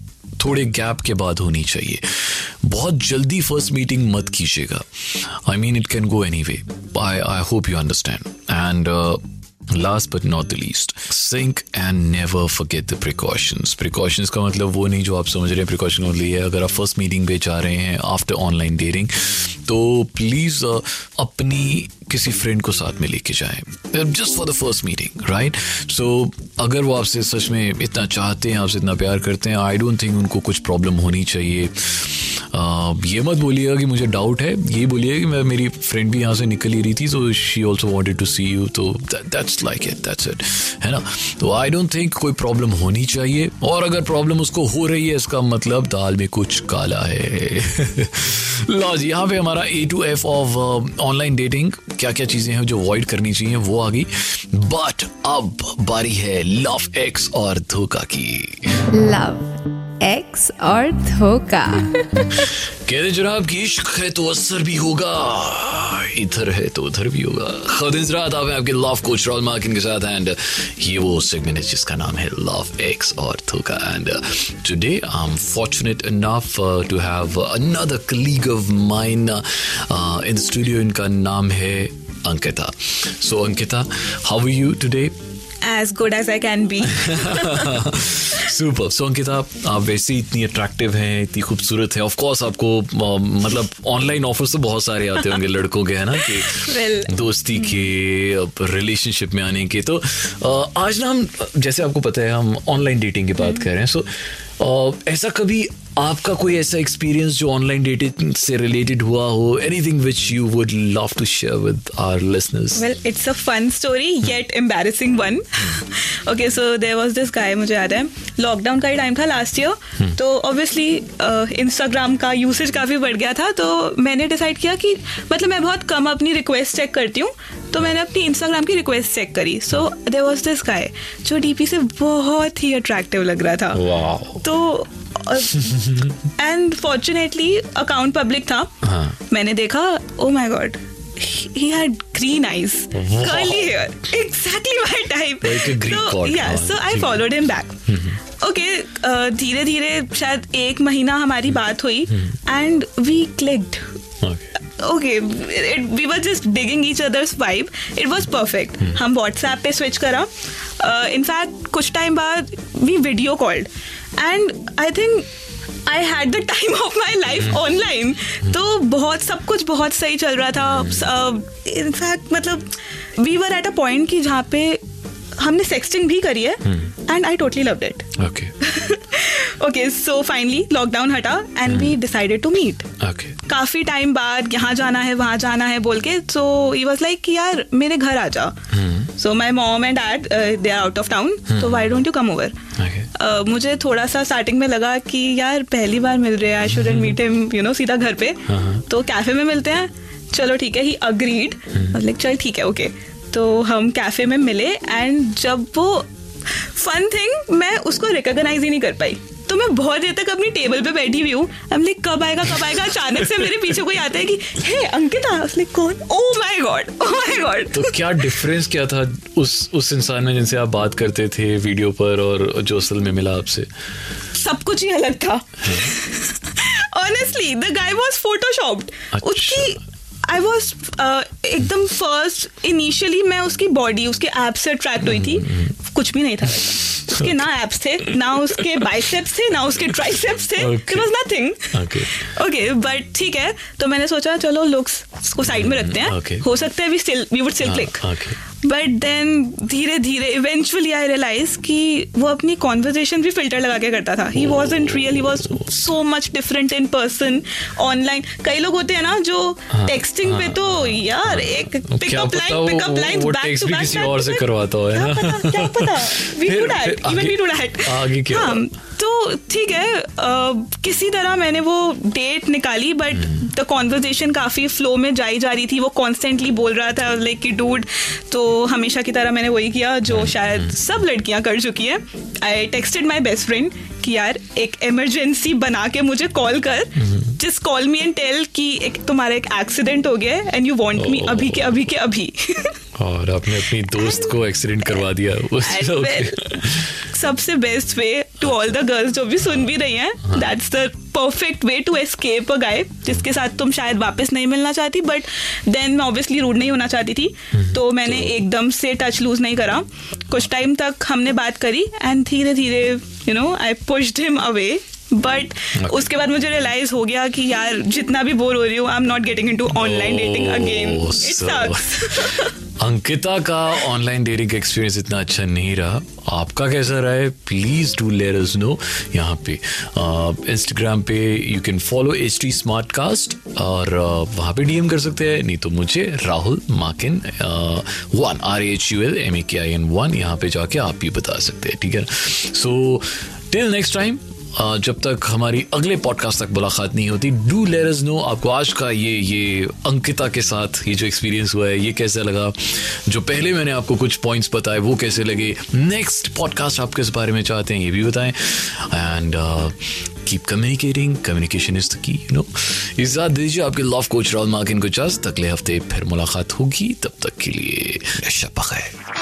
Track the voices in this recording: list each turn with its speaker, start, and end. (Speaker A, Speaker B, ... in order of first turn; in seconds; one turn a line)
Speaker A: 0.4-58.7
Speaker B: 58.9-62.5
Speaker A: 62.9-85.1
Speaker C: 85.6-87.8
Speaker A: 86.8-104.1
Speaker C: 96.2-97.1
Speaker A: 104.6-112.8
Speaker C: 112.8-133.8
Speaker A: 133.7-134.5
Speaker C: 134.4-138.7
Speaker A: 135.6-136.2
Speaker A: 138.8-139.2
Speaker C: 139.3-147.8
Speaker A: 142.9-143.8
Speaker A: 145.4-147.3
Speaker A: 147.9-148.2
Speaker C: 148.4-153.8
Speaker A: 152.1-152.4
Speaker A: 154.2-154.5
Speaker C: 154.6-165.3
Speaker C: 165.9-174.8
Speaker C: 175.4-182.9
Speaker A: 176.7-176.9
Speaker A: 178.2-178.5
Speaker A: 181.7-182.0
Speaker A: 183.0-183.4
Speaker C: 183.5-188.6
Speaker A: 188.7-189.1
Speaker C: 189.2-192.6
Speaker A: 191.5-192.0
Speaker A: 192.8-193.1
Speaker C: 193.1-218.0
Speaker A: 196.7-197.2
Speaker A: 198.5-198.8
Speaker A: 217.7-223.7
Speaker C: 224.3-248.1
Speaker A: 225.6-225.9
Speaker A: 229.1-229.8
Speaker A: 235.0-235.7
Speaker A: 236.6-237.5
Speaker A: 238.1-238.9
Speaker A: 240.6-241.1
Speaker A: 241.7-242.1
Speaker A: 245.4-246.5
Speaker A: 247.6-248.4
Speaker C: 248.6-292.8
Speaker A: 255.0-255.3
Speaker A: 259.7-268.7
Speaker A: 273.1-273.4
Speaker A: 280.1-280.8
Speaker A: 287.0-287.4
Speaker A: 290.9-291.9
Speaker A: 293.0-296.9
Speaker C: 293.9-294.3
Speaker C: 295.6-322.5
Speaker A: 307.5-308.4
Speaker A: 315.8-316.0
Speaker A: 319.7-368.9